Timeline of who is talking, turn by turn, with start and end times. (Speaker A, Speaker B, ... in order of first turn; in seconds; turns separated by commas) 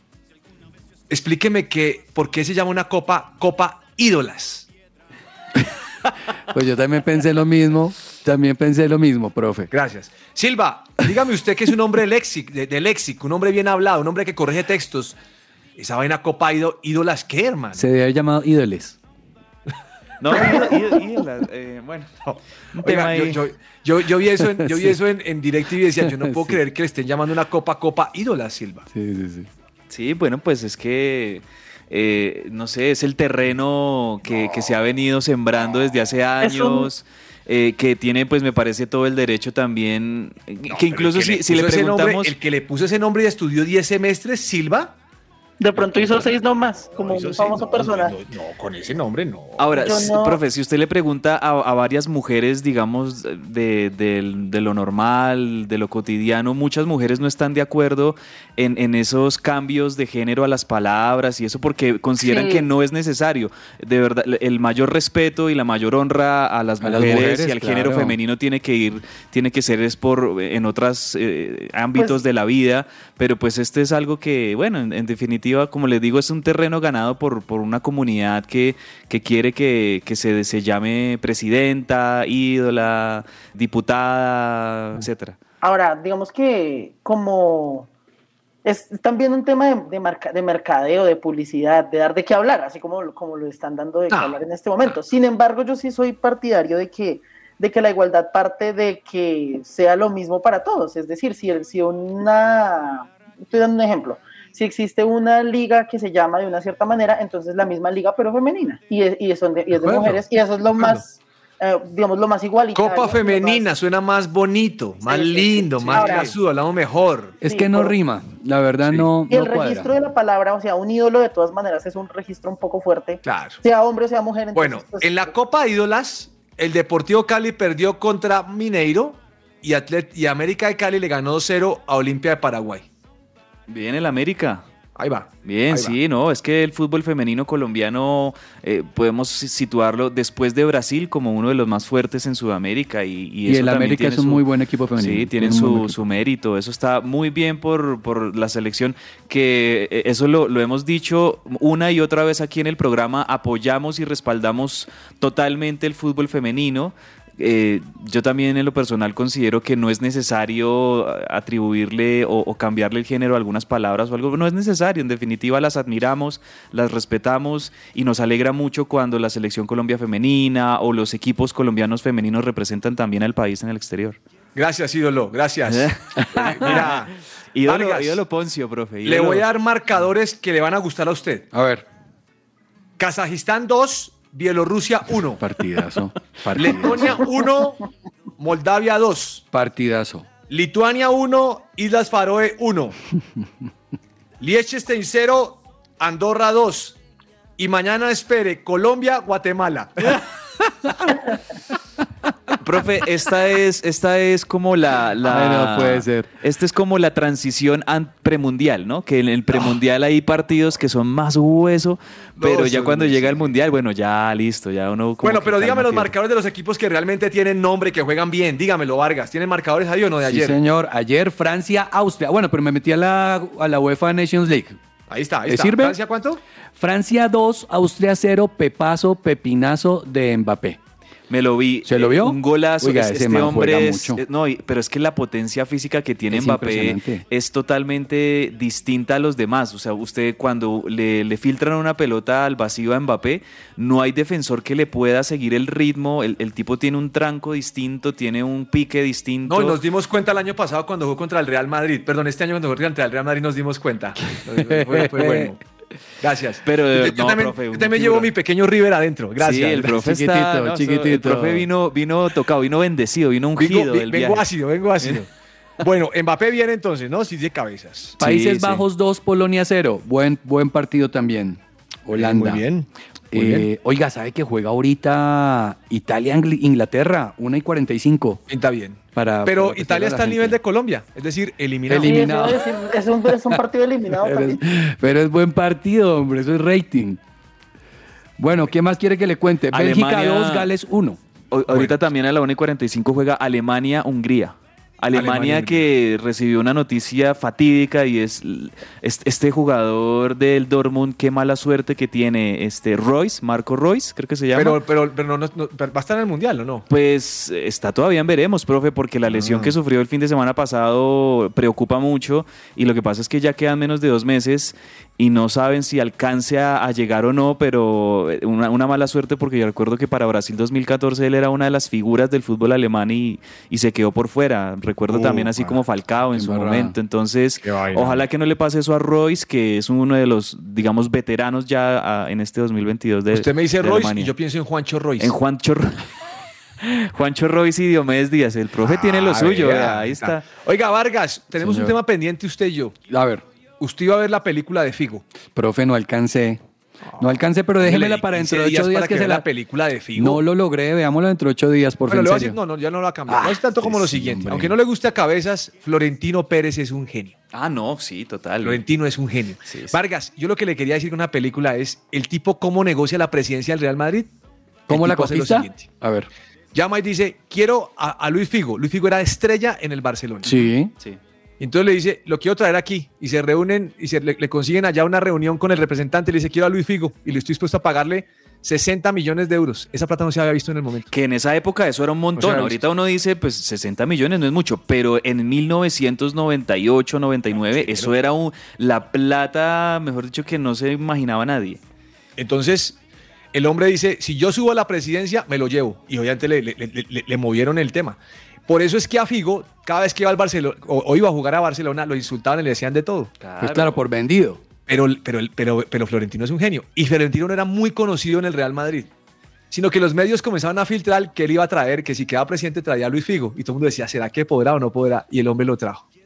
Speaker A: 1.1-4.7, Speaker B: 6.5-9.7, Speaker A: 9.7-15.2, Speaker A: 15.8-17.8, Speaker B: 17.8-19.0, Speaker C: 20.2-22.1, Speaker A: 20.3-20.7, Speaker A: 22.3-28.9, Speaker C: 22.7-23.4, Speaker B: 24.6-25.0, Speaker B: 26.0-26.6, Speaker B: 28.9-29.5, Speaker C: 29.9-42.4, Speaker A: 34.4-34.7, Speaker D: 36.4-36.9, Speaker A: 40.7-44.9, Speaker D: 45.6-48.1, Speaker A: 46.0-46.2, Speaker A: 47.0-49.8, Speaker C: 49.6-85.4, Speaker D: 49.8-50.4, Speaker D: 62.2-62.6, Speaker B: 66.8-68.1, Speaker D: 85.6-87.9, Speaker D: 88.6-113.7, Speaker A: 94.1-94.4, Speaker A: 109.8-111.0, Speaker A: 112.7-117.4, Speaker D: 115.1-116.4, Speaker B: 117.4-119.9, Speaker D: 117.4-118.0, Speaker D: 119.3-125.3, Speaker A: 123.2-123.6, Speaker A: 124.5-132.9, Speaker C: 133.7-134.6, Speaker A: 135.0-136.0, Speaker C: 135.4-144.4, Speaker B: 143.5-145.9, Speaker C: 145.0-174.2, Speaker A: 174.6-177.1, Speaker C: 175.7-179.5, Speaker B: 176.4-176.7, Speaker A: 177.7-178.2, Speaker A: 179.1-181.5, Speaker B: 181.5-181.8, Speaker A: 183.0-185.4, Speaker B: 185.4-187.2, Speaker A: 186.6-187.8, Speaker A: 188.4-189.4, Speaker B: 189.5-190.3, Speaker A: 190.5-192.9, Speaker A: 194.4-197.0, Speaker A: 197.6-200.2, Speaker C: 202.6-216.1, Speaker B: 205.3-206.3, Speaker A: 212.4-213.5, Speaker A: 215.2-220.6, Speaker B: 220.2-224.8, Speaker A: 225.1-226.4, Speaker B: 225.5-226.0, Speaker B: 226.8-230.8, Speaker C: 231.3-249.8, Speaker B: 231.9-234.2, Speaker B: 236.3-237.2, Speaker A: 249.5-255.6, Speaker B: 254.7-255.5, Speaker A: 256.2-260.0, Speaker C: 256.7-258.3, Speaker C: 259.4-264.5, Speaker B: 260.0-261.7, Speaker A: 263.6-265.3, Speaker A: 265.8-268.2, Speaker B: 268.2-272.7, Speaker C: 268.2-268.8, Speaker A: 272.1-273.7, Speaker B: 273.3-278.4, Speaker A: 278.5-282.5, Speaker B: 279.1-280.6, Speaker B: 281.9-282.7, Speaker D: 282.0-284.6, Speaker B: 284.2-287.2, Speaker B: 288.4-291.2, Speaker C: 289.7-290.7, Speaker C: 291.5-304.8, Speaker A: 291.7-291.9, Speaker A: 295.1-295.9, Speaker A: 304.5-306.8, Speaker C: 306.9-334.3, Speaker A: 309.3-309.7, Speaker A: 325.1-325.6, Speaker B: 326.4-326.9, Speaker A: 327.7-328.2, Speaker A: 333.3-335.4, Speaker C: 335.2-336.0, Speaker C: 336.8-340.5, Speaker A: 338.8-342.9, Speaker B: 341.6-342.0, Speaker B: 343.1-343.4, Speaker A: 343.8-345.2, Speaker B: 345.6-346.6, Speaker A: 347.1-350.4, Speaker B: 347.2-349.5, Speaker B: 350.1-352.6, Speaker A: 352.1-357.4, Speaker B: 353.3-354.8, Speaker C: 357.5-358.8, Speaker A: 358.6-364.3, Speaker C: 359.7-360.0, Speaker B: 364.9-366.3, Speaker A: 364.9-365.9, Speaker A: 366.7-370.6, Speaker B: 370.4-370.9, Speaker A: 371.6-381.1, Speaker C: 381.1-391.8, Speaker A: 382.4-382.8, Speaker A: 387.7-388.1, Speaker A: 392.4-393.0, Speaker A: 393.5-403.3, Speaker C: 403.4-404.0, Speaker B: 403.6-404.6, Speaker A: 404.9-409.1, Speaker A: 409.7-416.1